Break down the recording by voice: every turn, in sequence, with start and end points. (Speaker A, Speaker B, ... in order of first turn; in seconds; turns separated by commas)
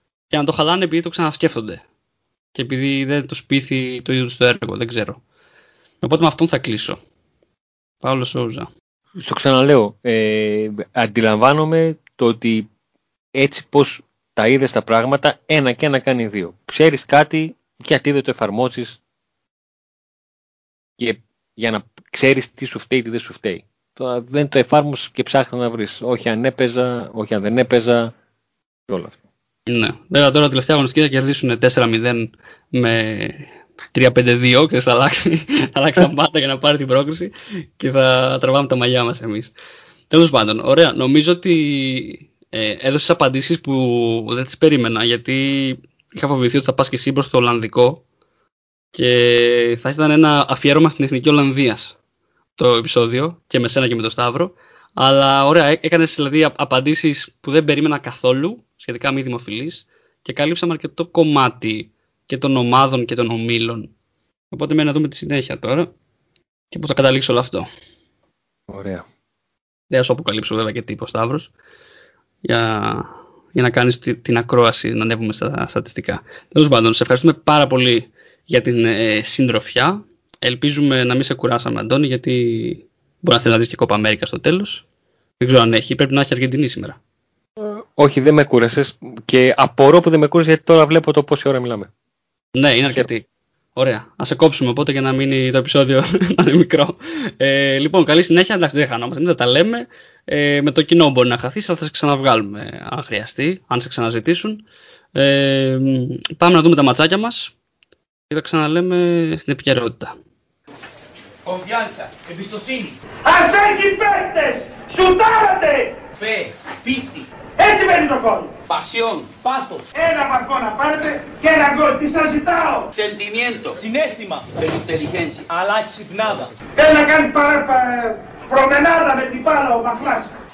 Speaker A: 0.3-1.8, Speaker A: 2.5-5.2, Speaker A: 6.0-7.0, Speaker A: 8.0-8.7, Speaker B: 9.2-12.7, Speaker B: 13.3-19.0, Speaker B: 21.0-28.1, Speaker B: 28.9-29.2, Speaker A: 29.7-39.5, Speaker A: 40.1-48.0, Speaker A: 48.9-51.9, Speaker A: 52.6-63.9, Speaker A: 64.5-65.9, Speaker A: 66.7-67.7, Speaker B: 68.7-69.0, Speaker A: 69.9-71.5, Speaker A: 72.5-84.8, Speaker A: 85.4-87.0, Speaker B: 87.6-91.9, Speaker A: 92.5-104.6, Speaker A: 105.2-107.5, Speaker A: 108.3-110.1, Speaker C: 111.4-112.9, Speaker D: 113.2-116.0, Speaker C: 116.2-117.3, Speaker D: 117.6-118.5, Speaker C: 118.7-119.3, Speaker E: 119.4-119.9, Speaker D: 119.9-122.9, Speaker C: 122.9-123.8, Speaker E: 123.8-124.5, Speaker C: 124.5-125.5, Speaker E: 125.5-126.5, Speaker D: 126.8-130.3